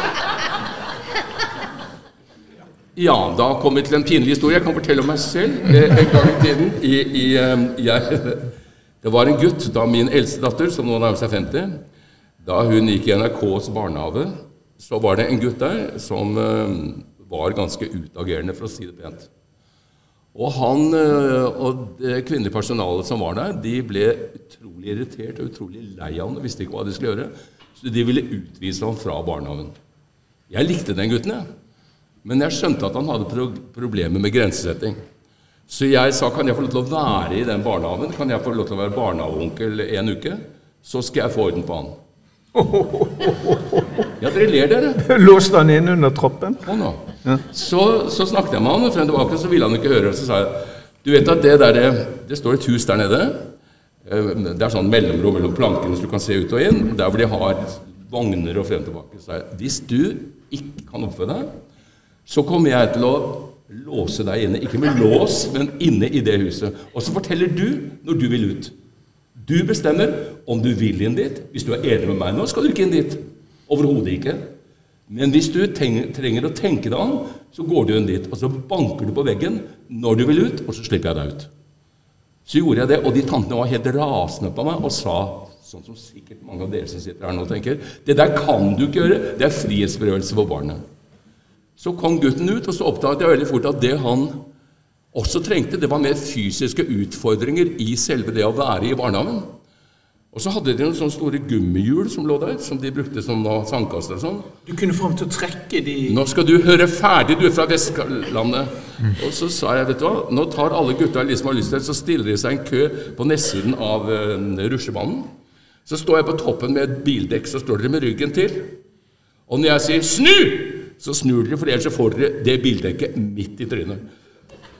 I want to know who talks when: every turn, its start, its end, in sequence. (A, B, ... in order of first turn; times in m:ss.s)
0:03.0-0:11.8 A
0:12.4-0:19.3 A
0:20.3-0:29.7 A
0:30.5-0:31.4 A
0:32.2-0:35.0 A
0:35.7-0:42.0 A
0:42.5-0:44.0 B
0:44.2-0:45.0 A
0:45.0-0:46.7 B
0:46.6-0:53.5 A
0:54.0-1:01.5 A
1:02.3-1:08.7 A
1:09.4-1:14.5 A
1:15.1-1:21.5 A
1:22.4-1:30.8 A
1:31.8-1:34.5 A
1:35.1-1:39.5 A
1:40.3-1:44.5 A
1:44.6-1:46.2 B
1:46.1-1:55.3 A
1:55.8-1:58.8 A
1:59.5-2:04.0 A